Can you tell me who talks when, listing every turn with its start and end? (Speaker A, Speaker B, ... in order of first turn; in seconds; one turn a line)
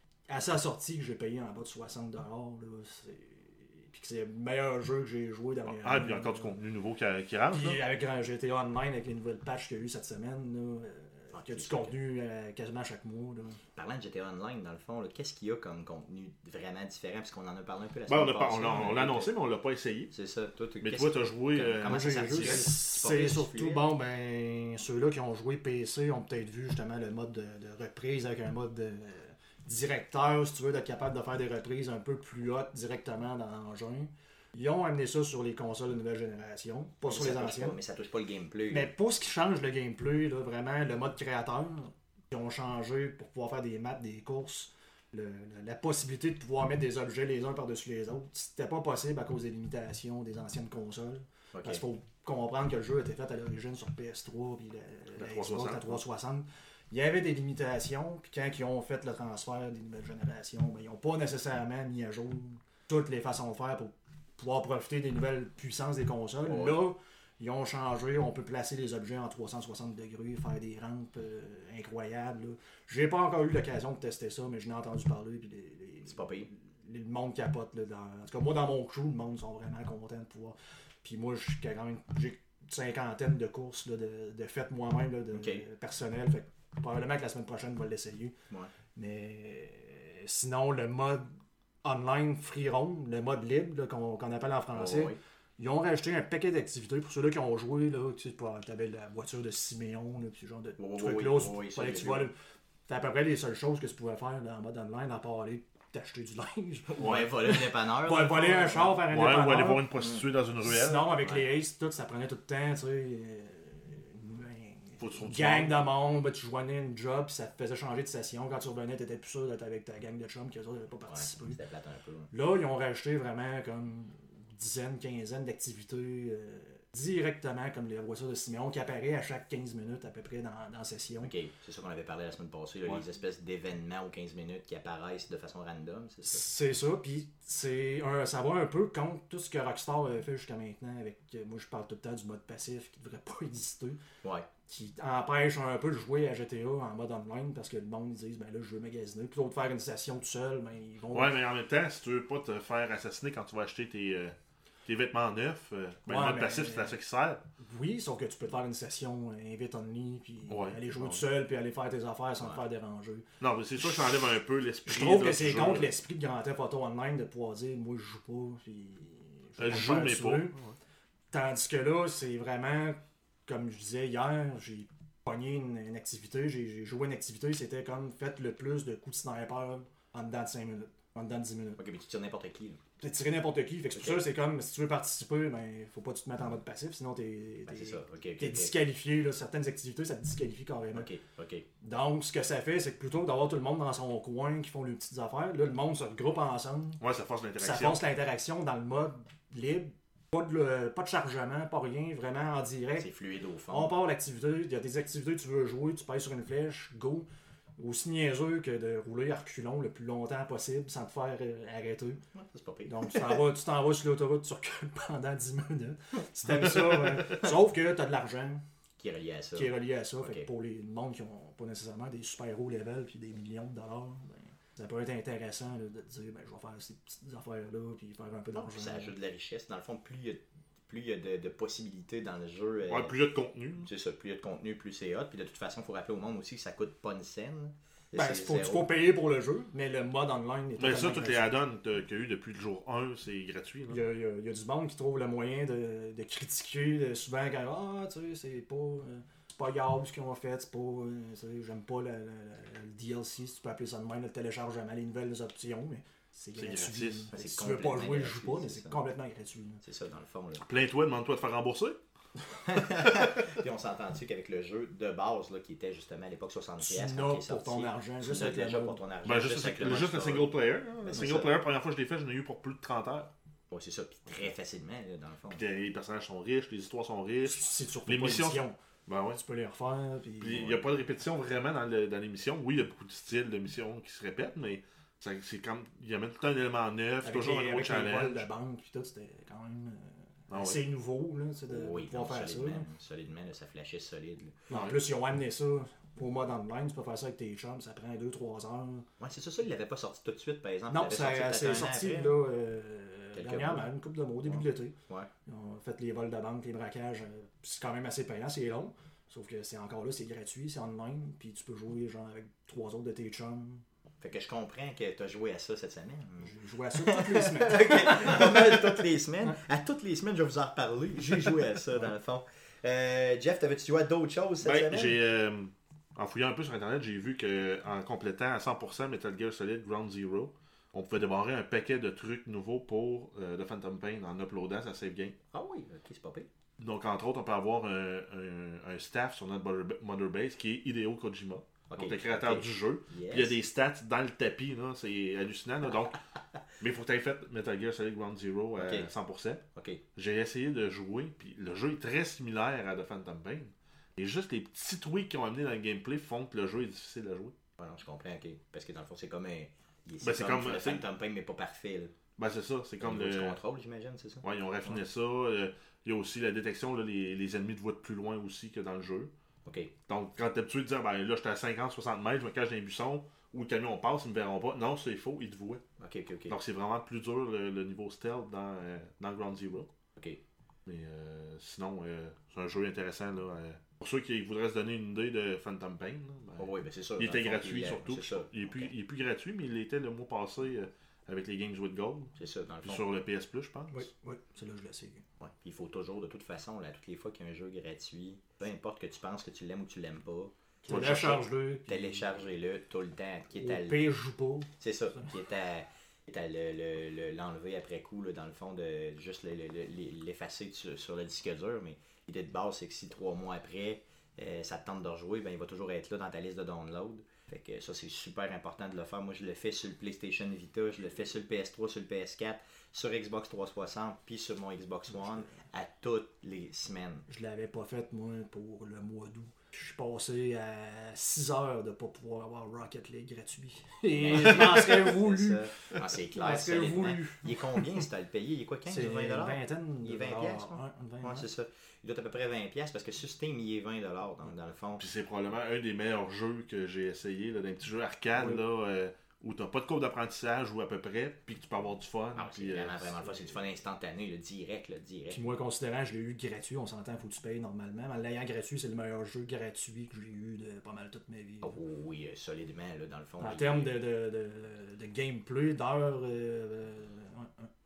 Speaker A: 0.3-6.5
Speaker B: 5.7-7.8
Speaker A: 7.5-13.6
Speaker C: 11.3-11.9
Speaker C: 13.8-19.3
Speaker B: 18.1-20.1
Speaker C: 20.1-23.9
Speaker B: 20.8-22.7
Speaker A: 21.8-37.8
Speaker C: 37.1-38.9
Speaker A: 38.7-88.4
Speaker C: 51.5-51.8
Speaker B: 55.1-56.0
Speaker C: 66.4-66.8
Speaker C: 76.0-76.5
Speaker C: 85.3-85.7
Speaker A: 89.0-91.3
Speaker A: 91.8-102.3
Speaker C: 94.7-95.2
Speaker C: 100.8-102.3
Speaker A: 102.9-110.0
Speaker C: 107.0-109.0
Speaker B: 109.1-111.2
Speaker C: 110.0-110.2
Speaker A: 110.6-121.6
Speaker B: 115.0-115.8
Speaker C: 121.1-122.3
Speaker A: 122.3-131.3
Speaker C: 131.2-136.4
Speaker A: 136.2-144.0
Speaker C: 144.2-144.5
Speaker A: 144.7-151.3
Speaker B: 151.1-154.3
Speaker B: 154.9-157.4
Speaker A: 156.1-156.9
Speaker A: 157.6-163.3
Speaker B: 160.5-161.2
Speaker B: 163.4-165.9
Speaker A: 163.8-164.2
Speaker A: 164.9-170.6
Speaker B: 169.6-170.8
Speaker A: 171.3-181.8
Speaker C: 181.8-182.8
Speaker A: 183.0-191.1
Speaker C: 183.9-184.2
Speaker C: 187.7-188.7
Speaker C: 190.9-191.7
Speaker A: 191.8-197.0
Speaker B: 197.0-198.0
Speaker A: 197.6-203.1
Speaker C: 203.0-203.9
Speaker A: 203.7-212.2
Speaker C: 212.3-213.4
Speaker A: 212.9-218.6
Speaker C: 219.0-220.5
Speaker A: 219.6-229.1
Speaker C: 228.6-233.1
Speaker B: 232.9-233.9
Speaker C: 233.8-238.9
Speaker A: 238.1-241.5
Speaker B: 240.8-244.0
Speaker A: 243.9-259.8
Speaker B: 256.6-257.3
Speaker C: 257.3-259.0
Speaker C: 259.8-260.6
Speaker B: 260.6-262.0
Speaker C: 262.6-271.6
Speaker B: 263.0-263.4
Speaker A: 266.8-269.0
Speaker B: 269.2-273.3
Speaker C: 273.7-275.6
Speaker B: 275.5-279.4
Speaker A: 277.4-278.8
Speaker A: 279.3-280.9
Speaker B: 280.4-288.5
Speaker A: 287.2-292.9
Speaker B: 290.5-290.8
Speaker C: 291.7-294.6
Speaker A: 294.7-299.1
Speaker B: 294.7-295.0
Speaker C: 299.2-302.3
Speaker A: 300.9-313.8
Speaker C: 303.3-303.9
Speaker C: 304.5-305.3
Speaker C: 314.2-325.2
Speaker A: 316.4-319.6
Speaker A: 321.2-322.1
Speaker B: 324.6-335.4
Speaker C: 335.5-336.5
Speaker B: 336.8-346.2
Speaker C: 341.9-343.6
Speaker B: 346.8-349.6
Speaker C: 348.8-349.1
Speaker C: 349.8-350.0
Speaker B: 350.2-357.6
Speaker C: 357.8-362.1
Speaker B: 360.2-361.0
Speaker B: 362.4-363.6
Speaker C: 363.0-365.0
Speaker B: 364.4-369.3
Speaker C: 369.7-369.9
Speaker B: 370.1-375.8
Speaker C: 376.0-376.6
Speaker B: 376.5-379.9
Speaker B: 380.9-392.3
Speaker C: 386.6-388.9
Speaker C: 392.4-393.1
Speaker B: 392.8-394.1
Speaker A: 393.9-395.2
Speaker C: 395.4-404.0
Speaker A: 400.9-402.2
Speaker B: 400.9-401.4
Speaker A: 403.6-405.3
Speaker C: 404.8-427.2
Speaker A: 425.1-425.6
Speaker A: 427.3-438.1
Speaker C: 434.1-445.1
Speaker A: 438.9-441.5
Speaker B: 445.0-453.5
Speaker A: 448.4-448.6
Speaker C: 452.4-455.4
Speaker A: 455.3-461.8
Speaker C: 461.6-464.0
Speaker A: 463.4-467.7